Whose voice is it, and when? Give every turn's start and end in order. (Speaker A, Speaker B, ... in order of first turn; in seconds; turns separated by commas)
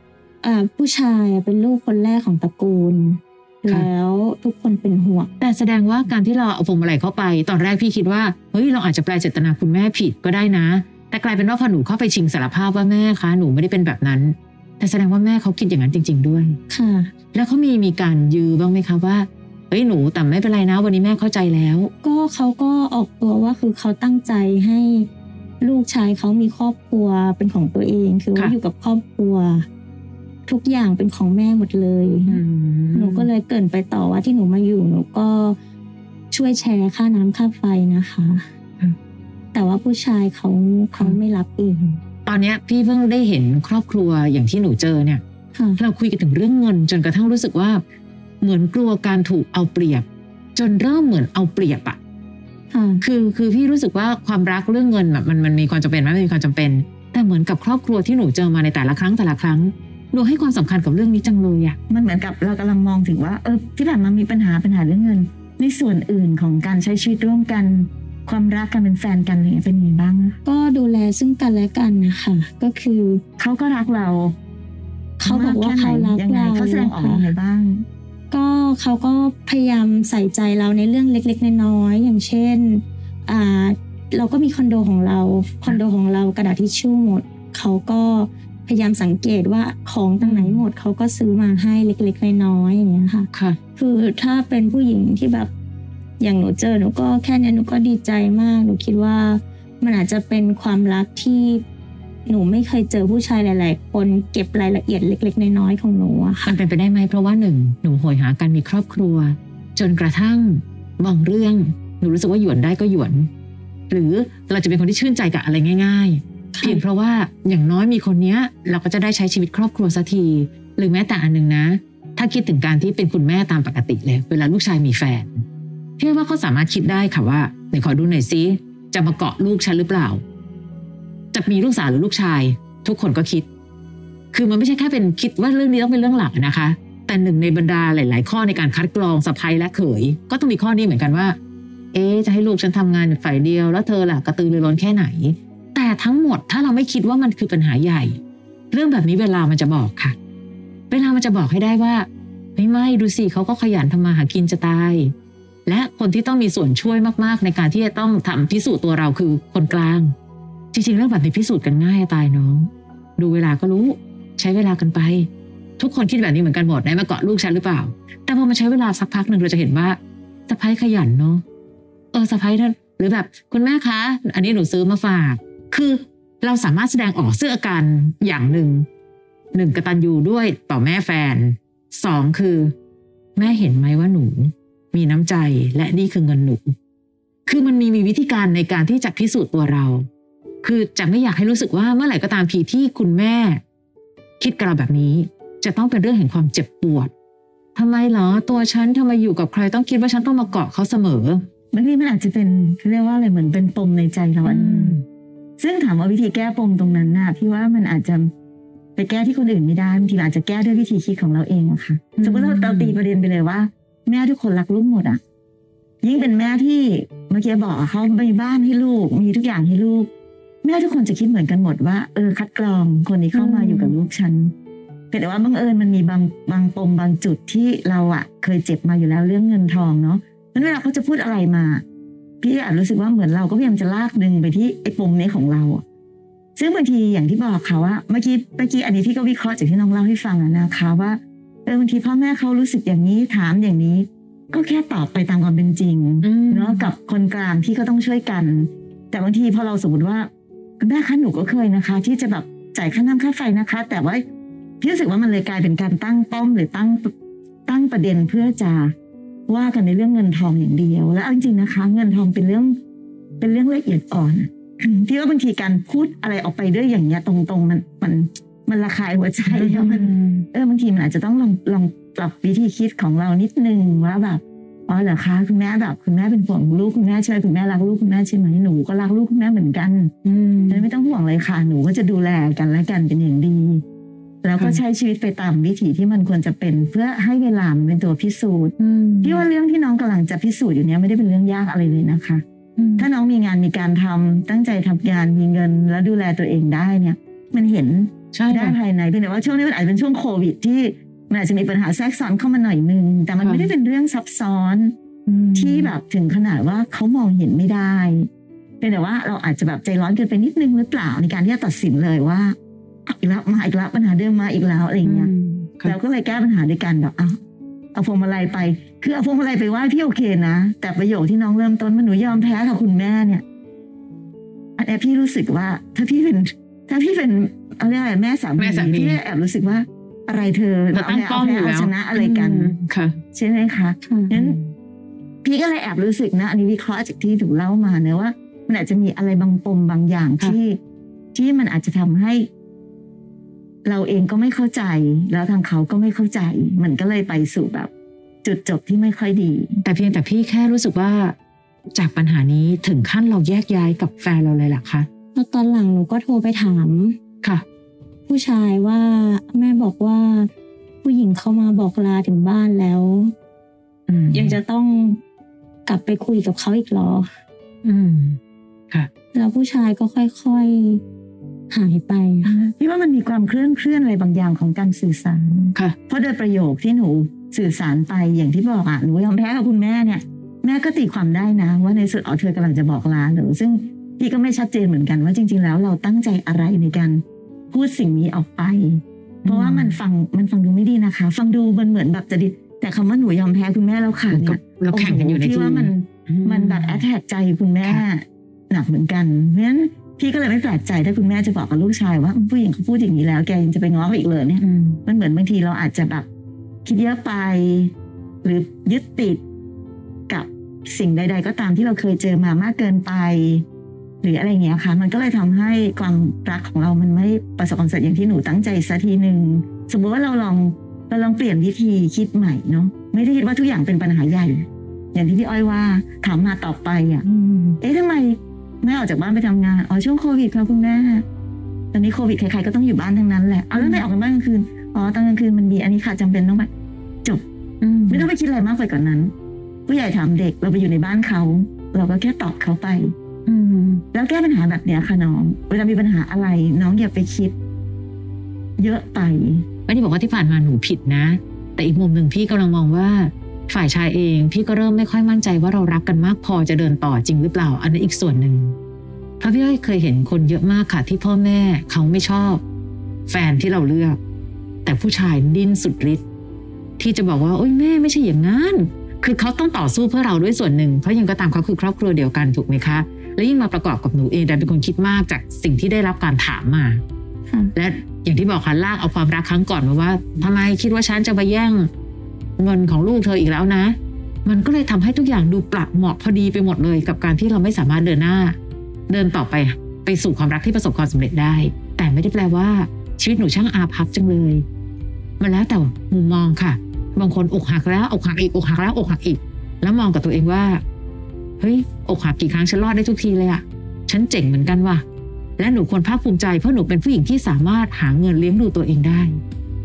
Speaker A: 0.4-5.3, Speaker B: 5.4-16.6, Speaker A: 16.7-17.1, Speaker B: 17.3-21.9, Speaker A: 22.0-25.1, Speaker A: 25.6-29.6, Speaker A: 30.4-32.4, Speaker B: 32.3-33.3, Speaker A: 32.9-35.6, Speaker A: 36.3-38.5, Speaker A: 39.5-42.0, Speaker B: 42.2-45.2, Speaker A: 45.5-45.8, Speaker B: 45.8-47.8, Speaker B: 48.4-52.0, Speaker A: 52.7-53.0, Speaker B: 53.0-61.8, Speaker C: 61.9-70.4, Speaker A: 70.4-73.2, Speaker C: 73.4-74.3, Speaker A: 75.2-77.3, Speaker C: 75.2-77.8, Speaker A: 78.3-95.5, Speaker B: 90.2-90.6, Speaker B: 93.3-93.6, Speaker A: 96.2-101.6, Speaker A: 102.2-106.5, Speaker B: 106.4-113.3, Speaker B: 113.9-125.4, Speaker A: 116.5-116.8, Speaker B: 126.0-130.2, Speaker B: 131.3-133.5, Speaker B: 134.3-141.4, Speaker B: 141.9-148.2, Speaker B: 148.7-150.2, Speaker B: 150.9-155.1, Speaker B: 155.7-160.1, Speaker B: 160.7-171.4, Speaker B: 172.1-178.9, Speaker B: 179.5-182.7, Speaker B: 183.3-186.7, Speaker B: 187.4-190.1, Speaker B: 190.6-193.6, Speaker B: 194.4-197.1, Speaker B: 197.7-201.4, Speaker C: 201.7-205.0, Speaker B: 204.4-205.0, Speaker C: 205.6-208.3, Speaker C: 208.9-215.2, Speaker B: 212.2-212.9, Speaker C: 216.0-220.1, Speaker C: 220.6-224.5, Speaker B: 223.3-223.9, Speaker C: 225.1-231.8, Speaker C: 232.4-235.8, Speaker C: 236.6-250.3, Speaker B: 246.2-246.9, Speaker C: 250.8-254.2, Speaker C: 254.8-257.1, Speaker C: 257.6-258.9, Speaker C: 259.5-262.8, Speaker C: 263.4-280.1, Speaker B: 269.4-270.4, Speaker B: 280.2-280.8, Speaker C: 280.7-283.8, Speaker C: 284.4-292.4, Speaker B: 288.8-289.4, Speaker B: 292.8-293.1, Speaker C: 293.0-304.9, Speaker B: 298.3-298.8, Speaker B: 303.4-303.7, Speaker B: 305.2-305.9, Speaker C: 305.5-308.3, Speaker C: 308.8-315.3, Speaker B: 315.0-315.9, Speaker C: 315.8-317.4, Speaker C: 317.9-323.4, Speaker C: 324.8-332.7, Speaker B: 328.6-329.2, Speaker B: 330.9-333.2, Speaker C: 333.3-334.6, Speaker A: 334.0-334.3, Speaker B: 334.3-334.7, Speaker C: 335.4-340.8, Speaker C: 341.3-342.5, Speaker C: 343.8-347.9, Speaker C: 348.4-349.8, Speaker B: 349.8-351.3, Speaker B: 351.9-355.1, Speaker A: 355.3-357.2, Speaker A: 358.3-360.5, Speaker A: 361.0-363.3, Speaker B: 364.1-364.6, Speaker A: 364.3-365.2, Speaker A: 365.9-367.3, Speaker B: 367.8-368.4, Speaker A: 369.3-371.0, Speaker A: 371.7-372.5, Speaker C: 372.4-406.2, Speaker B: 389.4-389.9, Speaker B: 394.3-397.0, Speaker B: 404.6-405.0, Speaker C: 406.8-407.9, Speaker C: 408.4-409.4, Speaker C: 410.3-413.6, Speaker C: 414.2-427.2, Speaker B: 427.2-427.8, Speaker C: 427.8-431.2, Speaker C: 431.9-436.7, Speaker B: 433.7-434.1, Speaker B: 437.8-438.3, Speaker C: 438.1-439.3, Speaker C: 439.9-443.1, Speaker B: 443.4-444.0, Speaker C: 444.1-447.5, Speaker C: 448.8-449.6, Speaker B: 449.9-458.8, Speaker B: 459.4-462.6, Speaker B: 463.3-464.2, Speaker B: 464.8-466.2, Speaker B: 467.0-477.0, Speaker A: 477.5-477.7, Speaker B: 477.7-481.9, Speaker B: 482.6-488.6, Speaker B: 489.1-494.6, Speaker B: 495.4-500.8, Speaker B: 501.6-505.0, Speaker B: 505.6-509.4